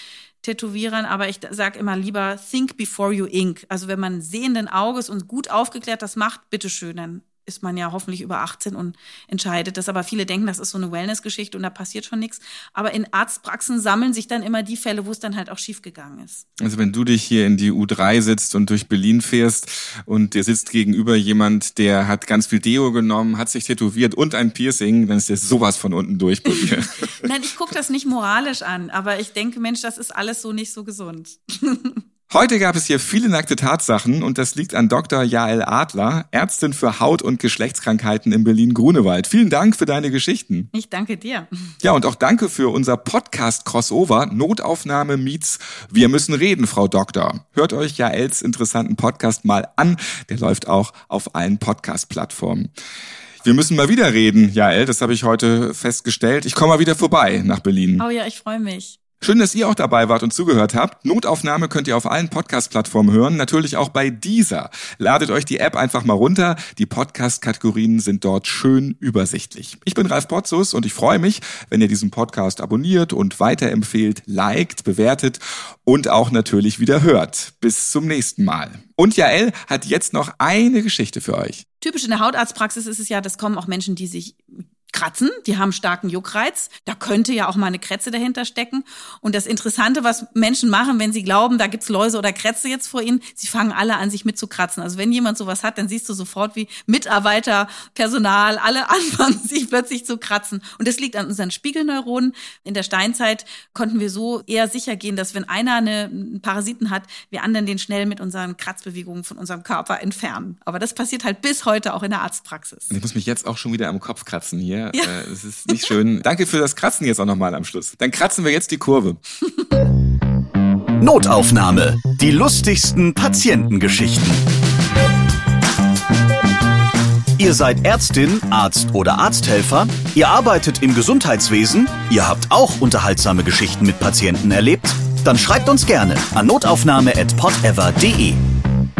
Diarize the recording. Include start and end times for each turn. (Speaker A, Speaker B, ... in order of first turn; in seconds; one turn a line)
Speaker A: 0.4-16.4
Speaker B: 16.6-27.1
Speaker A: 26.5-32.0
Speaker B: 32.3-40.7
Speaker A: 40.7-41.7
Speaker B: 41.8-52.7
Speaker B: 53.4-58.0
Speaker A: 58.0-59.0
Speaker B: 59.2-81.6
Speaker A: 81.8-112.9
Speaker B: 112.9-119.2
Speaker C: 121.0-124.4
Speaker C: 127.4-138.4